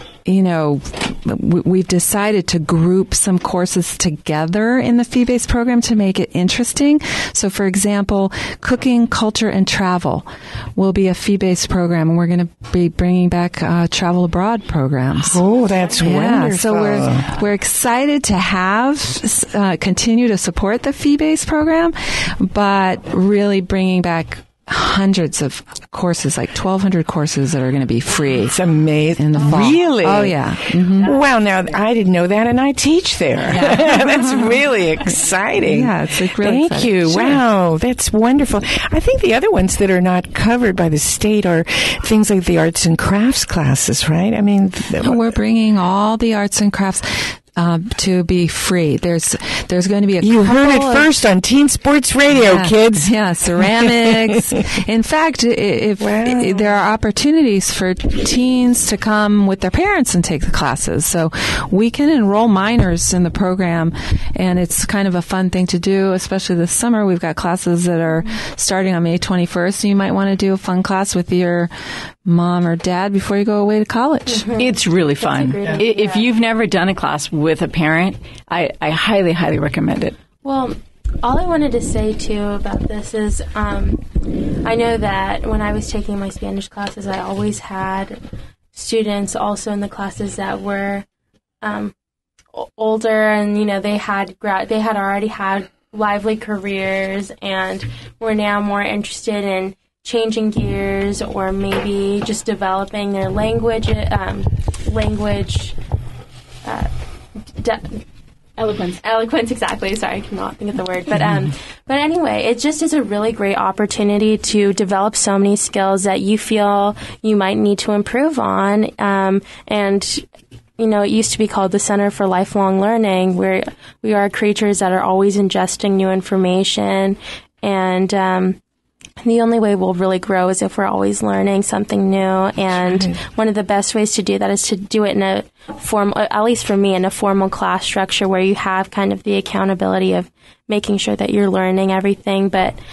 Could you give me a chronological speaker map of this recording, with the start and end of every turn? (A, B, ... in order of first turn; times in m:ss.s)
0:00.2-0:15.4 A
0:15.2-0:17.3 B
0:16.0-0:28.6 A
0:28.4-0:45.3 B
0:29.2-0:31.1 A
0:33.5-0:34.6 A
0:35.5-0:37.4 A
0:45.0-0:51.1 A
0:50.2-0:54.3 B
0:52.3-1:11.7 A
0:56.0-0:56.8 B
1:12.2-1:14.5 A
1:14.3-1:16.3 C
1:14.6-1:20.2 D
1:20.4-1:28.2 C
1:28.7-1:31.0 C
1:31.6-1:31.9 C
1:32.5-1:45.8 C
1:46.6-1:46.9 C
1:47.6-1:48.0 C
1:48.6-1:48.9 D
1:48.6-2:00.2 C
2:00.8-2:08.6 C
2:09.2-2:22.8 C
2:12.7-2:13.2 B